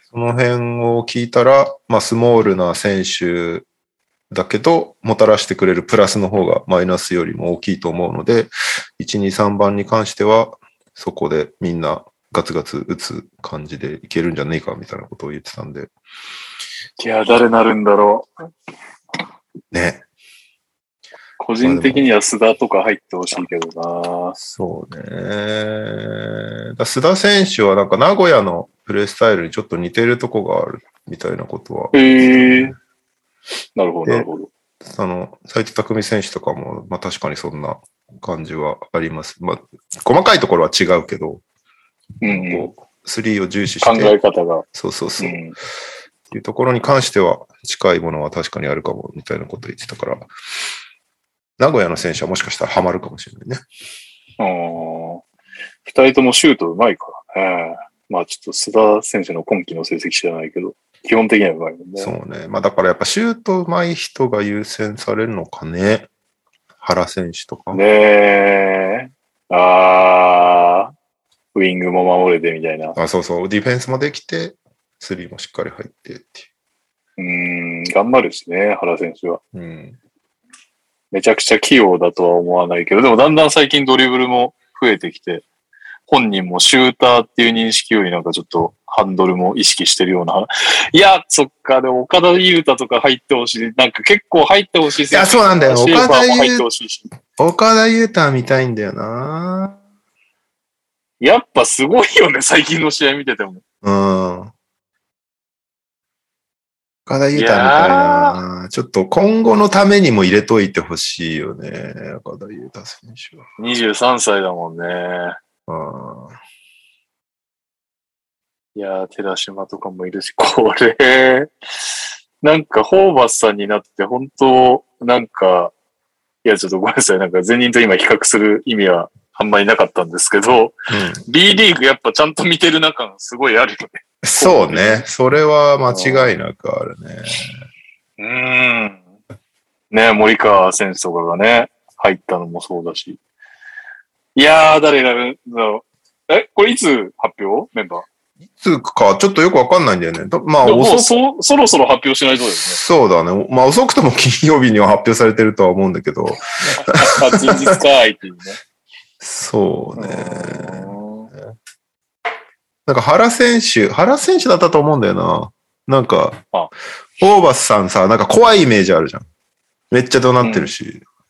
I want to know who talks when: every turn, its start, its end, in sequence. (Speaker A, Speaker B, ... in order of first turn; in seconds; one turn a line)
Speaker A: 0.1-3.6
Speaker A: 4.3-15.9
Speaker B: 17.0-18.3
Speaker A: 19.7-20.0
Speaker B: 21.4-24.4
Speaker A: 21.6-22.1
Speaker A: 24.4-32.8
Speaker B: 31.9-32.8
Speaker B: 33.8-34.5
Speaker A: 34.8-41.4
Speaker B: 42.2-42.7
Speaker A: 42.2-44.1
Speaker B: 43.8-44.6
Speaker A: 44.7-45.4
Speaker B: 45.2-45.5
Speaker A: 46.3-50.3
Speaker A: 51.6-53.6
Speaker B: 54.4-55.2
Speaker B: 55.9-62.1
Speaker A: 62.0-66.1
Speaker A: 66.8-67.8
Speaker B: 67.7-70.9
Speaker B: 71.5-73.0
Speaker A: 73.0-76.5
Speaker B: 77.2-79.4
Speaker A: 79.5-80.0
Speaker B: 81.1-85.4
Speaker B: 86.1-97.1
Speaker A: 95.1-96.6
Speaker A: 97.4-99.8
Speaker B: 101.2-103.6
Speaker A: 103.8-104.5
Speaker A: 107.1-113.4
Speaker B: 107.3-108.4
Speaker B: 113.6-115.4
Speaker A: 115.7-116.3
Speaker B: 118.7-121.5
Speaker B: 122.4-125.7
Speaker B: 126.4-135.0
Speaker A: 130.9-131.2
Speaker A: 134.2-137.5
Speaker B: 135.9-136.3
Speaker B: 138.2-139.0
Speaker B: 139.9-143.2
Speaker B: 144.3-148.0
Speaker A: 148.5-151.2
Speaker B: 150.6-152.8
Speaker A: 152.7-157.7
Speaker B: 156.7-158.6
Speaker A: 159.2-160.9
Speaker B: 160.0-161.3
Speaker A: 162.8-166.4
Speaker A: 167.2-169.2
Speaker A: 169.9-171.0
Speaker B: 170.4-170.7